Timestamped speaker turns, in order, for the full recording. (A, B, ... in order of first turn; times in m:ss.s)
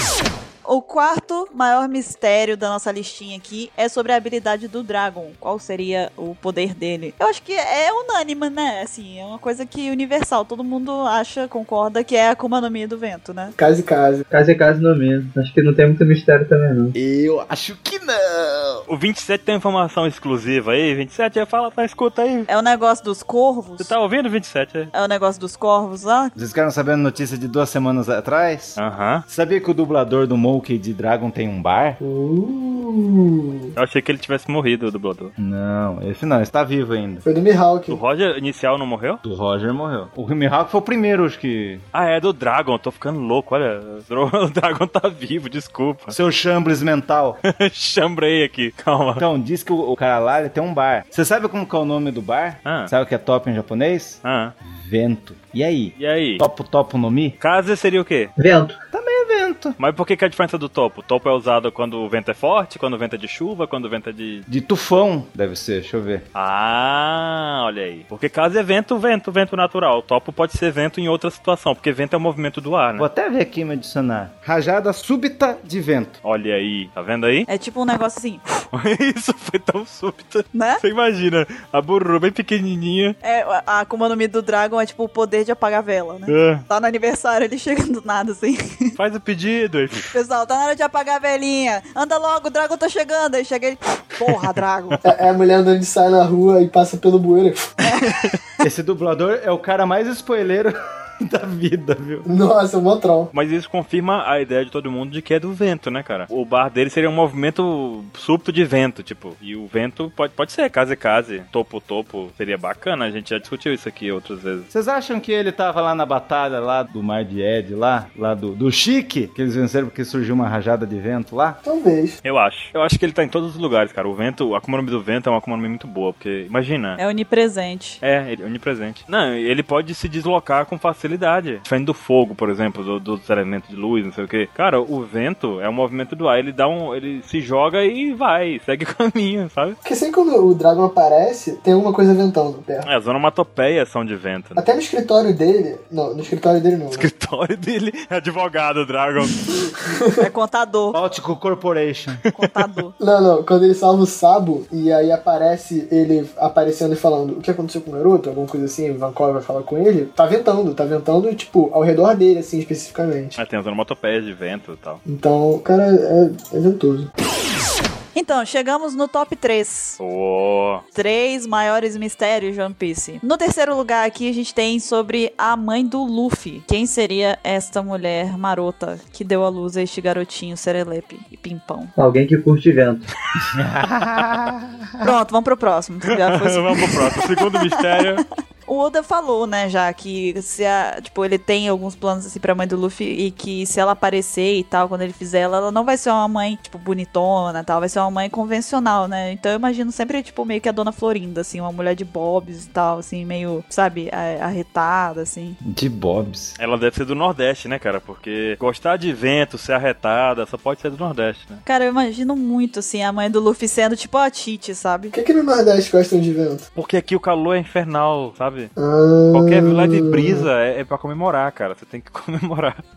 0:00.6-0:13.6 A
0:13.6-0:14.2 B
0:14.3-0:16.9 C
0:16.9-0:18.8 D
0:18.9-0:22.5 E
0:22.5-0:23.9 A
0:23.8-0:24.9 E
0:24.9-0:26.3 A
0:26.4-0:32.0 D
0:28.8-0:29.2 E
0:32.0-0:33.7 B
0:33.8-0:35.3 E
0:35.4-0:37.2 D
0:37.2-0:38.0 B
0:37.9-0:39.2 E
0:39.2-0:41.8 D
0:41.9-0:46.2 E
0:46.1-0:47.4 D
0:47.4-0:49.2 E
0:49.2-0:57.4 D
0:52.6-0:52.9 E
0:54.2-0:54.5 E
0:56.0-0:56.4 E
0:57.4-0:58.3 E
0:58.4-0:58.8 C
0:58.9-0:59.8 D
0:59.8-1:04.5 E
1:04.5-1:06.2 D
1:06.4-1:13.1 E
1:13.0-1:16.2 D
1:16.2-1:17.5 E
1:17.5-1:18.4 A
1:18.7-1:23.2 E
1:20.5-1:20.8 A
1:23.2-1:28.9 A
1:26.3-1:26.6 E
1:29.0-1:30.2 E
1:30.1-1:35.0 A
1:35.0-1:37.8 B
1:37.8-1:38.2 A
1:38.6-1:42.3 D
1:42.3-1:43.3 B
1:43.3-1:54.7 E
1:54.7-2:01.6 D
2:01.6-2:02.2 B
2:02.2-2:07.0 E
2:07.0-2:08.0 A
2:08.0-2:19.8 E
2:19.8-2:22.9 B
2:22.8-2:24.6 E
2:24.6-2:27.1 B
2:26.9-2:29.7 E
2:30.2-2:31.0 A
2:30.9-2:32.2 D
2:32.3-2:32.9 A
2:33.0-2:43.4 B
2:43.4-2:45.0 E
2:45.1-2:47.1 B
2:48.2-2:50.0 A
2:50.0-2:50.8 E
2:50.9-3:01.9 A
3:02.0-3:03.1 C
3:03.5-3:05.2 D
3:05.0-3:07.8 A
3:06.1-3:08.2 E
3:08.7-3:25.6 A
3:25.6-3:26.6 D
3:26.6-3:31.6 E
3:31.7-3:35.1 A
3:35.1-3:36.6 B
3:36.8-3:38.7 E
3:38.8-3:40.5 B
3:39.3-3:42.8 E